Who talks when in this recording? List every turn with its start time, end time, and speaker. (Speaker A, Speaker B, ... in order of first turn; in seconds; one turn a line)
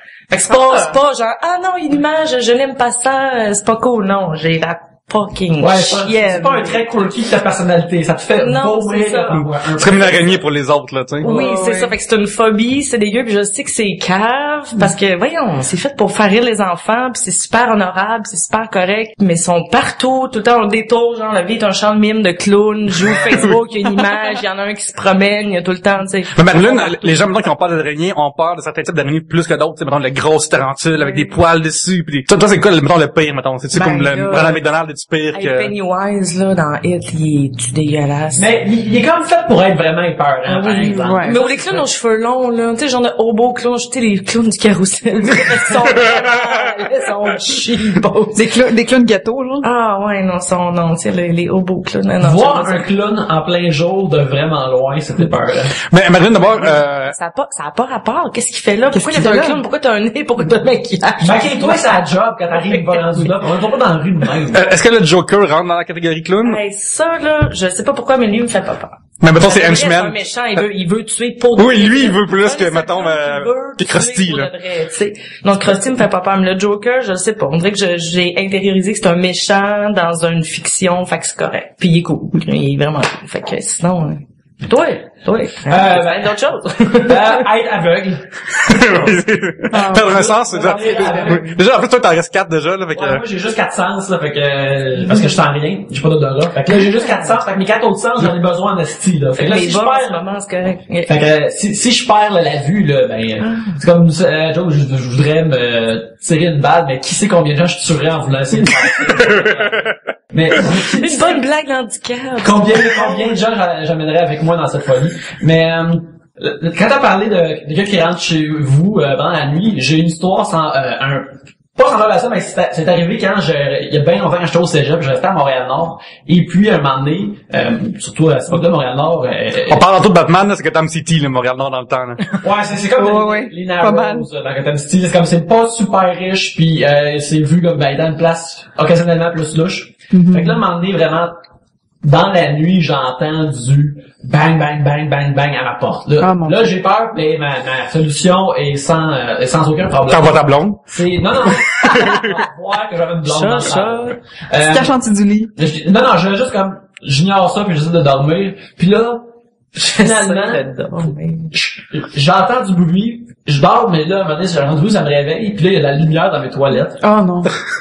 Speaker A: 0.3-6.8
Speaker B: 5.6-10.4
Speaker A: 8.4-9.4
Speaker C: 9.3-11.3
Speaker A: 11.2-27.2
Speaker D: 11.2-11.9
Speaker B: 23.1-23.4
Speaker C: 23.3-23.6
Speaker C: 26.4-35.7
Speaker A: 33.7-34.6
Speaker D: 33.8-34.1
Speaker A: 35.3-38.5
Speaker B: 38.4-41.9
Speaker A: 40.5-48.5
Speaker D: 40.8-41.4
Speaker D: 48.4-49.7
Speaker A: 49.6-52.9
Speaker B: 52.2-55.8
Speaker C: 55.9-57.1
Speaker A: 56.4-61.9
Speaker D: 58.9-59.6
Speaker B: 61.2-64.7
Speaker A: 62.6-63.0
Speaker C: 64.5-66.6
Speaker A: 66.4-87.5
Speaker C: 69.2-70.6
Speaker C: 71.6-74.5
Speaker B: 85.7-86.2
Speaker B: 87.1-89.1
Speaker C: 88.7-93.2
Speaker D: 89.7-91.6
Speaker B: 89.9-91.5
Speaker B: 93.0-100.2
Speaker A: 99.4-101.1
Speaker B: 101.1-109.8
Speaker A: 103.5-103.8
Speaker C: 109.1-109.9
Speaker B: 110.3-111.4
Speaker A: 110.7-113.3
Speaker B: 112.4-129.9
Speaker C: 129.7-132.4
Speaker B: 132.3-141.4
Speaker D: 133.0-134.3
Speaker D: 140.1-140.6
Speaker B: 142.0-154.9
Speaker D: 146.2-146.6
Speaker C: 150.1-150.8
Speaker C: 151.4-152.3
Speaker A: 153.3-154.2
Speaker D: 154.6-155.5
Speaker B: 155.6-160.6
Speaker A: 160.0-161.5
Speaker B: 161.5-167.0
Speaker D: 167.0-167.6